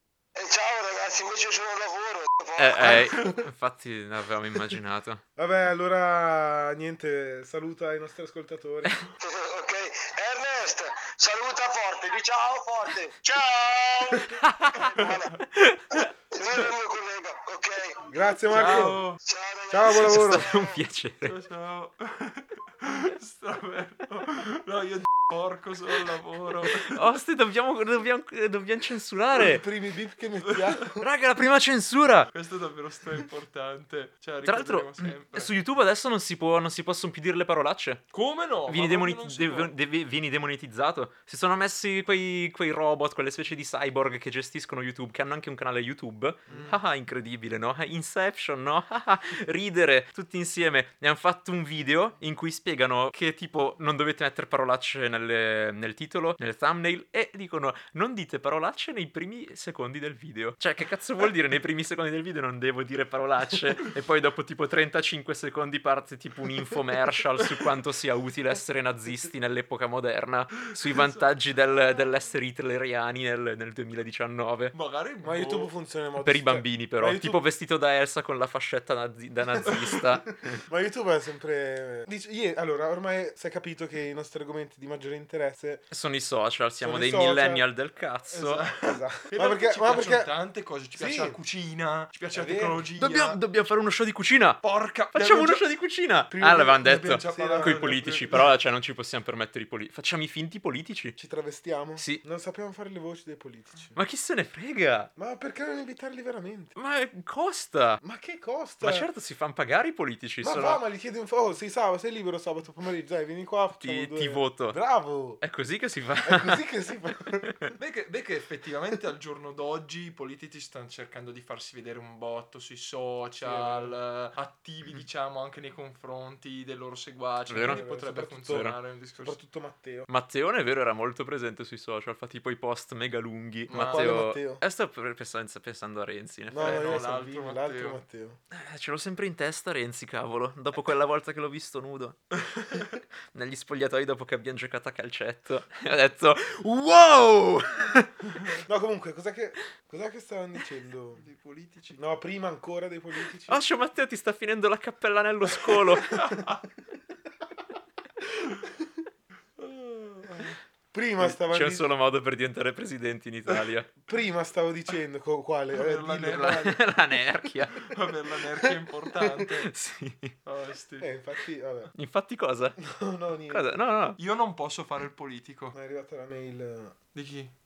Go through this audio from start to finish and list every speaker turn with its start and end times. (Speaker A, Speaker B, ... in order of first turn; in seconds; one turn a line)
Speaker A: 0.3-3.1
Speaker B: 2.6-5.2
Speaker C: 2.8-3.5
Speaker C: 5.3-9.0
Speaker A: 9.2-15.4
Speaker B: 14.4-14.8
Speaker D: 14.8-15.2
Speaker B: 15.5-16.1
Speaker A: 15.9-18.0
Speaker C: 18.1-19.0
Speaker D: 18.5-19.2
Speaker A: 19.2-20.7
Speaker C: 19.7-20.5
Speaker B: 20.0-21.3
Speaker D: 21.2-27.0
Speaker B: 26.6-29.6
Speaker C: 29.3-31.1
Speaker B: 31.0-32.3
Speaker D: 32.3-35.5
Speaker B: 34.4-38.1
Speaker D: 38.1-39.7
Speaker B: 38.7-74.7
Speaker C: 46.5-46.8
Speaker D: 70.9-71.3
Speaker D: 74.7-75.7
Speaker C: 75.2-77.4
Speaker B: 76.2-80.6
Speaker C: 80.5-85.8
Speaker B: 85.9-88.7
Speaker C: 86.8-87.6
Speaker D: 88.3-93.4
Speaker C: 88.8-90.3
Speaker C: 90.9-91.4
Speaker C: 92.3-92.8
Speaker B: 93.0-94.6
Speaker D: 94.6-95.6
Speaker B: 95.1-101.2
Speaker C: 96.3-98.4
Speaker D: 96.8-98.5
Speaker C: 101.2-104.0
Speaker B: 102.0-102.2
Speaker B: 103.9-105.1
Speaker C: 105.2-106.7
Speaker B: 106.8-108.0
Speaker C: 108.0-109.1
Speaker B: 108.8-110.8
Speaker C: 110.4-115.4
Speaker B: 113.8-114.8
Speaker B: 115.4-116.6
Speaker C: 116.2-117.6
Speaker B: 117.4-117.7
Speaker D: 117.8-129.4
Speaker C: 123.4-124.0
Speaker B: 127.5-127.8
Speaker C: 127.6-130.1
Speaker B: 128.5-128.8
Speaker B: 130.1-137.0
Speaker D: 133.7-134.2
Speaker C: 133.7-134.6
Speaker C: 136.5-138.4
Speaker D: 136.6-138.0
Speaker B: 138.5-148.2
Speaker C: 148.6-151.2
Speaker D: 151.2-152.0
Speaker C: 151.9-153.6
Speaker B: 153.5-156.2
Speaker D: 156.1-156.6
Speaker D: 159.6-160.6
Speaker C: 160.9-161.9
Speaker B: 161.2-163.9
Speaker C: 164.0-166.8
Speaker D: 165.7-166.8
Speaker B: 166.3-167.9
Speaker D: 167.8-169.7
Speaker C: 169.2-169.4
Speaker B: 169.7-170.3
Speaker D: 170.4-171.1
Speaker C: 171.0-171.9
Speaker B: 171.9-172.8
Speaker C: 172.8-173.7
Speaker B: 173.5-174.2
Speaker D: 174.2-175.8
Speaker C: 175.7-176.9
Speaker D: 177.1-177.5